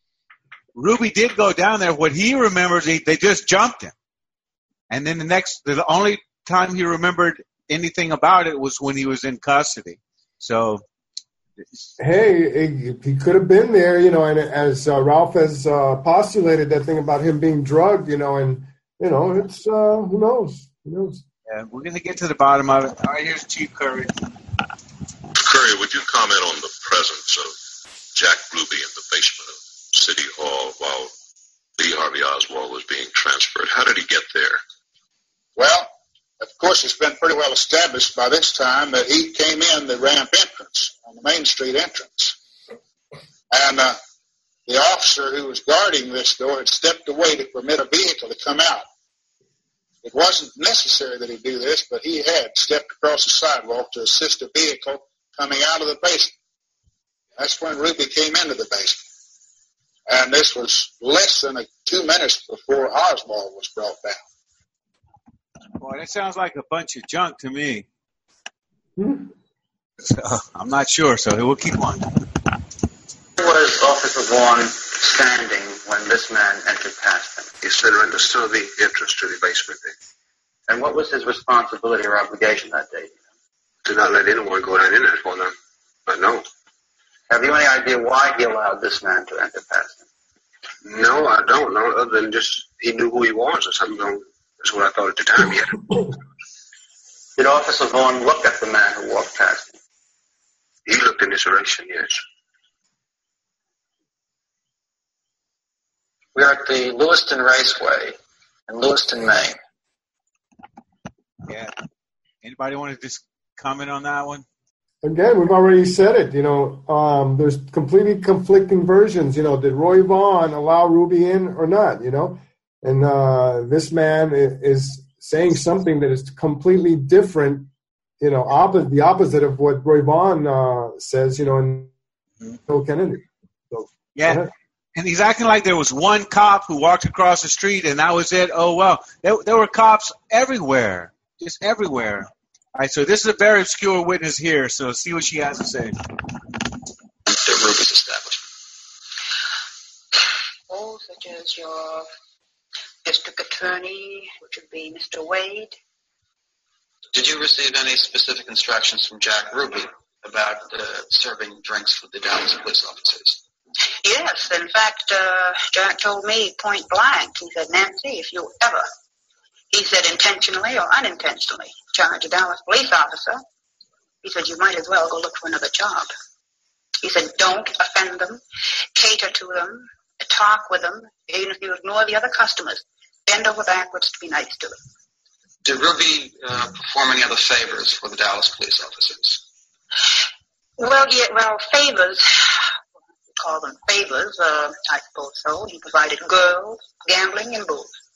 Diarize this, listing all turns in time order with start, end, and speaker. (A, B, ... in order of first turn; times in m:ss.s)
0:00.8-0:03.9 A
0:04.9-0:10.8 A
0:12.0-0:21.2 B
0:21.5-0:24.1 A
0:25.4-0:27.6 C
0:28.1-0:31.1 C
0:31.8-0:34.6 C
0:35.6-0:42.4 D
0:43.5-0:44.0 D
0:44.7-0:48.9 D
0:50.0-0:56.3 D
0:57.4-0:59.0 D
1:00.1-1:04.2 D
1:05.8-1:07.9 A
1:09.0-1:09.3 B
1:10.0-1:12.1 A
1:13.4-1:17.5 E
1:17.6-1:19.9 F
1:20.7-1:23.2 E
1:23.8-1:25.5 F
1:26.1-1:26.4 F
1:27.3-1:30.0 E
1:30.8-1:36.1 F
1:37.4-1:39.8 E
1:40.9-1:42.2 F
1:46.4-1:48.2 E
1:48.7-1:49.6 E
1:51.5-1:51.7 A
1:52.4-1:54.4 A
1:55.0-2:07.7 B
2:08.2-2:11.9 B
2:12.7-2:14.5 B
2:14.2-2:26.0 A
2:27.3-2:28.4 G
2:30.7-2:32.1 H
2:33.0-2:35.8 H
2:37.1-2:43.4 G
2:44.0-2:48.9 H
2:49.7-2:53.4 H
2:54.2-2:56.1 H
2:57.0-2:58.4 H
2:59.0-3:04.8 H
3:05.6-3:09.4 G
3:10.8-3:12.6 H
3:13.4-3:17.9 H